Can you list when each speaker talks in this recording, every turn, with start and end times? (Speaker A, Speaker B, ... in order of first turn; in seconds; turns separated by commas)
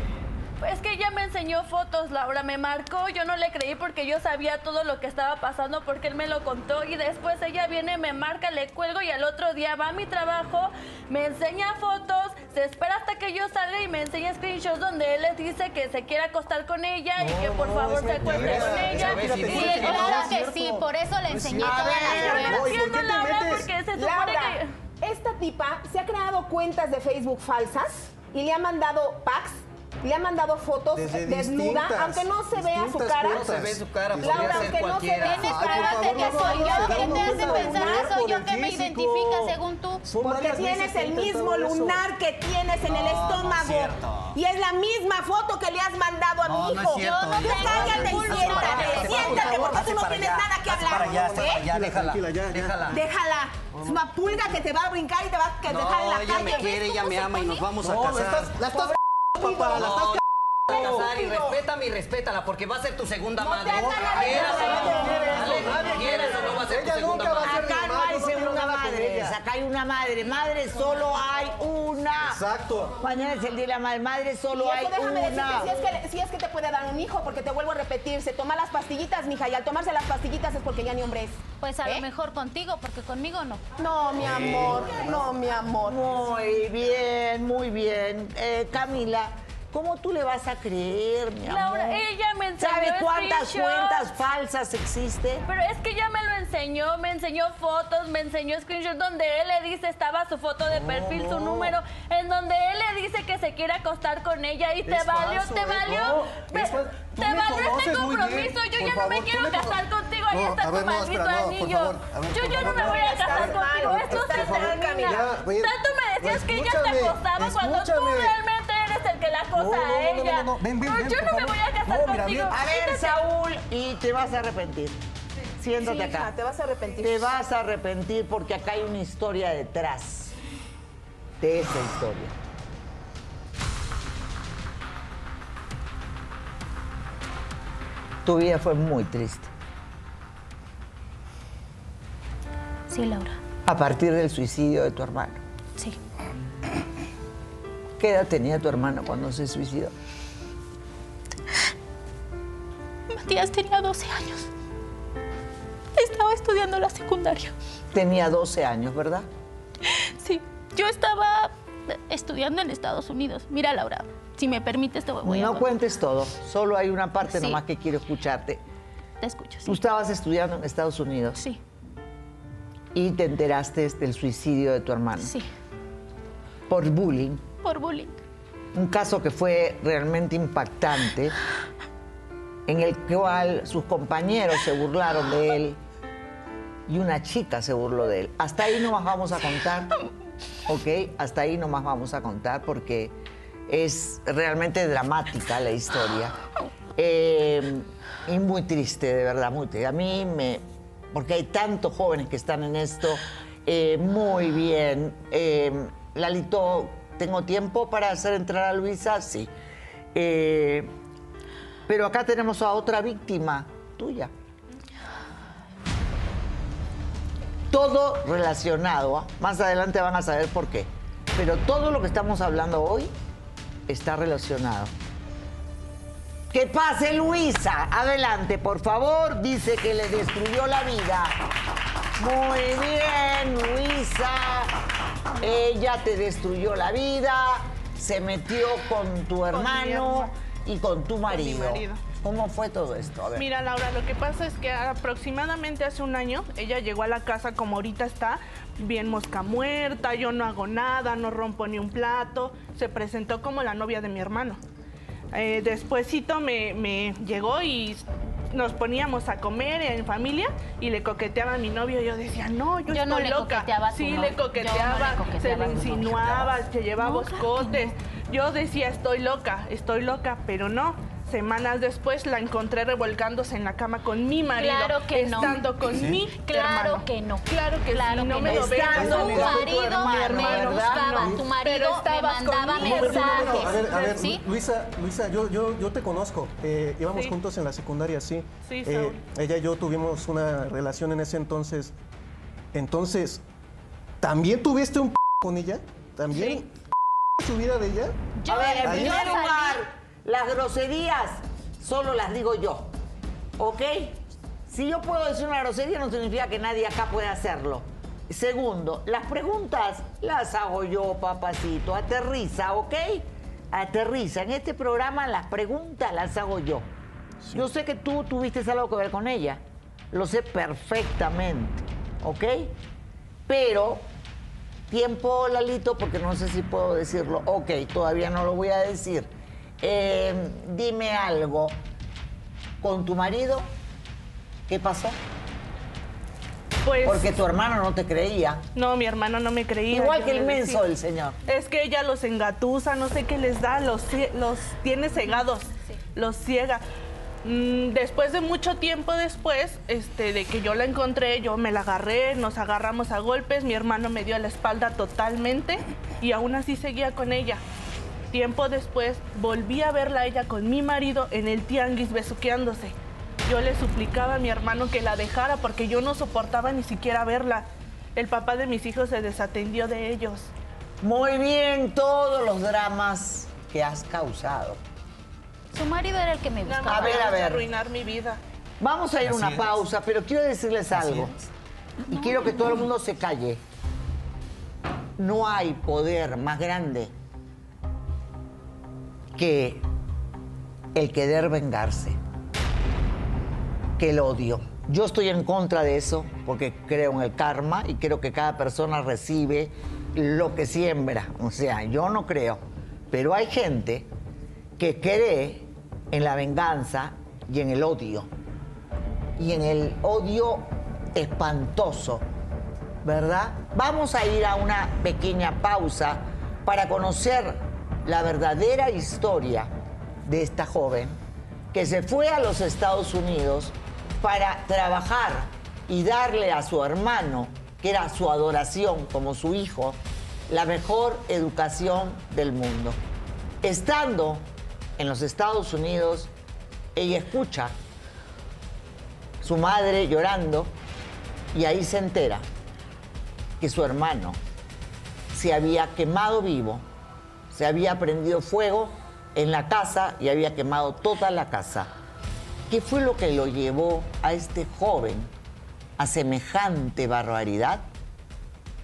Speaker A: 0.6-19.7, Speaker B: 17.2-23.7, Speaker C: 18.2-20.3, Speaker D: 19.4-22.4, Speaker E: 21.6-22.7, Speaker A: 22.2-24.7, Speaker F: 23.9-33.5, Speaker B: 30.9-42.0, Speaker C: 33.3-35.7, Speaker F: 34.2-38.1, Speaker D: 35.2-40.1, Speaker F: 40.2-51.6, Speaker C: 42.9-44.4, Speaker C: 46.5-53.0, Speaker D: 47.4-48.9, Speaker B: 47.5-49.9, Speaker B: 50.9-53.0, Speaker F: 52.9-56.9, Speaker B: 53.7-54.0, Speaker C: 55.7-58.8, Speaker D: 56.3-57.6, Speaker B: 57.8-61.1, Speaker F: 59.4-59.8, Speaker C: 59.5-67.7, Speaker F: 60.7-61.6, Speaker F: 63.5-65.6, Speaker B: 63.7-69.4, Speaker E: 67.4-72.4, Speaker B: 72.2-73.0, Speaker E: 73.0-76.0, Speaker F: 74.5-82.0, Speaker D: 81.6-83.6, Speaker F: 83.8-86.0, Speaker C: 84.2-84.9, Speaker E: 85.8-92.0, Speaker A: 91.4-94.1, Speaker E: 92.6-95.5, Speaker A: 95.5-123.2, Speaker B: 100.7-101.8, Speaker B: 104.8-118.4, Speaker F: 112.5-115.2, Speaker B: 119.5-122.6, Speaker E: 122.5-125.0, Speaker E: 125.6-126.3, Speaker F: 125.8-127.3, Speaker E: 127.0-130.4, Speaker E: 131.4-132.3, Speaker E: 138.2-139.5, Speaker D: 142.9-143.4, Speaker E: 143.7-145.4, Speaker E: 148.0-149.9, Speaker D: 153.1-154.5, Speaker D: 156.0-157.5, Speaker E: 157.9-159.3, Speaker D: 159.9-165.7, Speaker E: 165.2-168.6, Speaker D: 167.2-167.6, Speaker D: 169.2-169.8, Speaker E: 169.7-171.4, Speaker E: 172.9-175.3, Speaker D: 175.2-175.5, Speaker E: 176.7-177.4, Speaker D: 177.6-178.2, Speaker E: 178.7-181.3, Speaker E: 182.7-185.8, Speaker E: 186.9-189.9, Speaker E: 190.7-193.1, Speaker E: 193.7-196.4, Speaker E: 197.0-209.5, Speaker E: 210.2-210.9, Speaker E: 211.9-214.3, Speaker E: 217.7-223.1, Speaker E: 223.9-224.9, Speaker E: 226.5-231.3, Speaker E: 232.2-234.7, Speaker E: 235.4-243.5, Speaker G: 239.5-240.3, Speaker G: 241.3-242.0, Speaker G: 243.4-254.6, Speaker G: 255.3-281.4, Speaker D: 262.9-267.9, Speaker D: 274.5-284.4, Speaker B: 275.9-276.2, Speaker E: 278.5-281.2, Speaker B: 279.0-279.6, Speaker F: 281.6-283.6, Speaker G: 282.8-284.2, Speaker B: 282.8-291.9, Speaker G: 287.1-287.4, Speaker G: 288.6-289.2, Speaker B: 292.7-293.4, Speaker B: 294.2-296.7, Speaker B: 297.4-298.1, Speaker D: 298.4-299.8, Speaker E: 298.5-302.9, Speaker B: 298.8-299.4, Speaker E: 303.6-316.9, Speaker E: 317.5-322.7, Speaker E: 323.5-324.1, Speaker E: 324.9-329.3, Speaker E: 329.8-331.8, Speaker E: 332.8-333.7, Speaker E: 334.7-335.2, Speaker G: 336.8-337.4, Speaker E: 337.0-338.6, Speaker G: 338.8-340.9, Speaker E: 339.9-341.4, Speaker G: 341.5-346.8, Speaker G: 347.4-357.6, Speaker G: 358.3-370.5, Speaker E: 371.0-374.8, Speaker D: 375.7-377.4, Speaker G: 376.6-378.4, Speaker E: 376.9-377.7, Speaker E: 378.8-381.4, Speaker C: 379.3-379.7, Speaker D: 382.0-382.9, Speaker E: 382.1-383.6, Speaker E: 385.2-387.1, Speaker E: 389.4-389.8, Speaker E: 390.9-392.2, Speaker E: 394.0-404.1, Speaker E: 404.8-408.3, Speaker E: 409.4-412.2, Speaker E: 413.0-419.7, Speaker E: 420.3-421.2, Speaker E: 421.7-433.0, Speaker E: 433.6-434.5, Speaker E: 435.0-436.3, Speaker E: 437.0-437.8, Speaker E: 439.4-440.7, Speaker E: 441.5-442.5, Speaker E: 443.6-444.4, Speaker E: 445.3-446.9, Speaker E: 447.5-451.9, Speaker E: 452.7-455.3, Speaker E: 456.0-457.9